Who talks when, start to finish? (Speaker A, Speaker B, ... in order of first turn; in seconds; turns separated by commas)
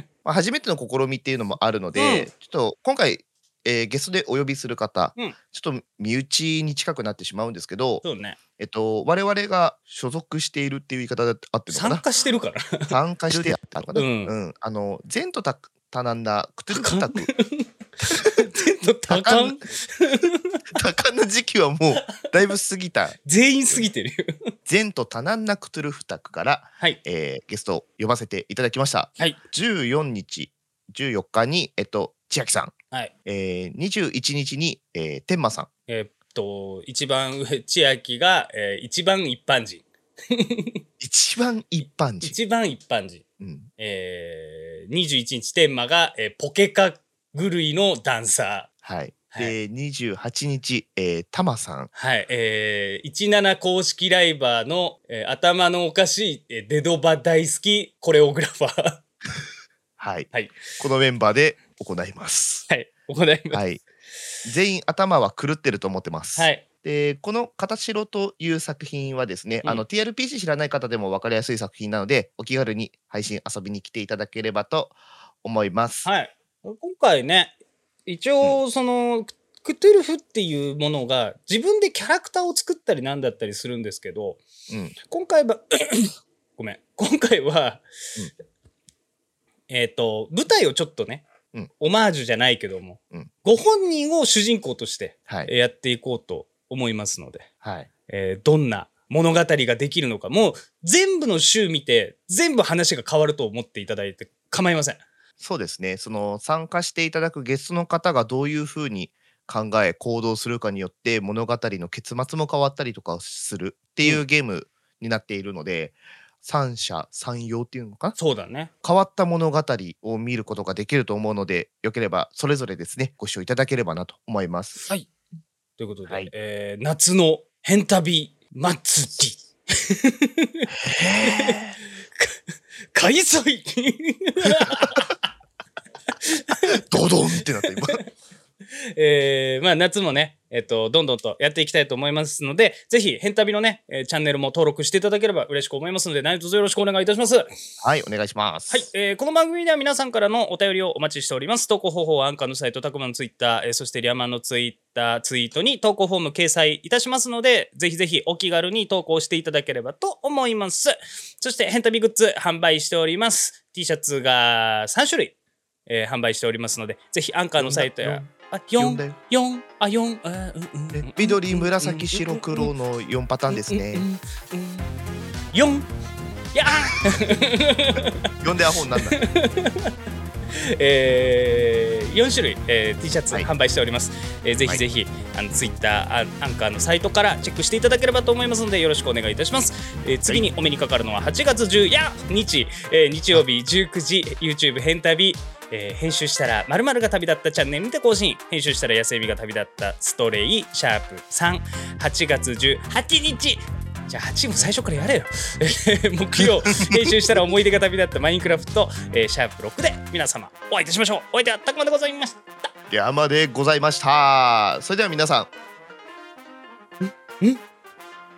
Speaker A: 0.2-8.0, Speaker B: 1.9-2.3, Speaker B: 8.0-8.4, Speaker A: 8.6-12.0, Speaker B: 11.7-14.3, Speaker A: 12.9-17.3, Speaker B: 16.7-20.6, Speaker A: 18.0-18.5, Speaker A: 19.1-19.6, Speaker A: 20.7-23.2, Speaker B: 23.2-24.5, Speaker A: 24.7-32.7, Speaker A: 33.2-35.7, Speaker B: 35.9-40.8, Speaker A: 41.0-42.4, Speaker B: 42.2-43.2, Speaker A: 43.4-43.7, Speaker B: 43.8-48.7, Speaker A: 48.8-51.9, Speaker B: 49.3-49.5, Speaker B: 51.9-59.0, Speaker A: 60.0-62.6, Speaker B: 60.3-60.6, Speaker B: 62.7-63.6, Speaker A: 63.5-63.8, Speaker A: 64.4-76.1, Speaker B: 66.3-66.6, Speaker B: 76.0-77.5, Speaker B: 78.0-84.4, Speaker A: 84.7-84.9, Speaker B: 85.1-87.8, Speaker B: 89.7-91.3, Speaker B: 91.8-97.5, Speaker A: 97.6-97.9, Speaker B: 98.1-105.0, Speaker A: 105.4-118.2, Speaker B: 118.2-118.7, Speaker A: 118.8-124.8, Speaker B: 125.8-130.7, Speaker A: 130.8-131.8, Speaker B: 131.2-131.6, Speaker B: 132.9-135.2, Speaker A: 134.6-134.9, Speaker B: 136.2-136.8, Speaker A: 136.7-138.0, Speaker B: 137.4-138.1, Speaker B: 138.9-147.5, Speaker A: 147.8-148.9, Speaker B: 148.7-165.3, Speaker B: 165.8-172.7, Speaker A: 167.6-169.1, Speaker A: 170.9-174.1, Speaker B: 173.5-174.9, Speaker B: 175.5-175.9, Speaker B: 176.5-178.3, Speaker A: 176.9-177.2, Speaker A: 178.4-179.2, Speaker B: 179.0-179.9, Speaker B: 180.5-212.5, Speaker A: 206.4-207.3, Speaker A: 212.9-215.5, Speaker B: 217.0-217.6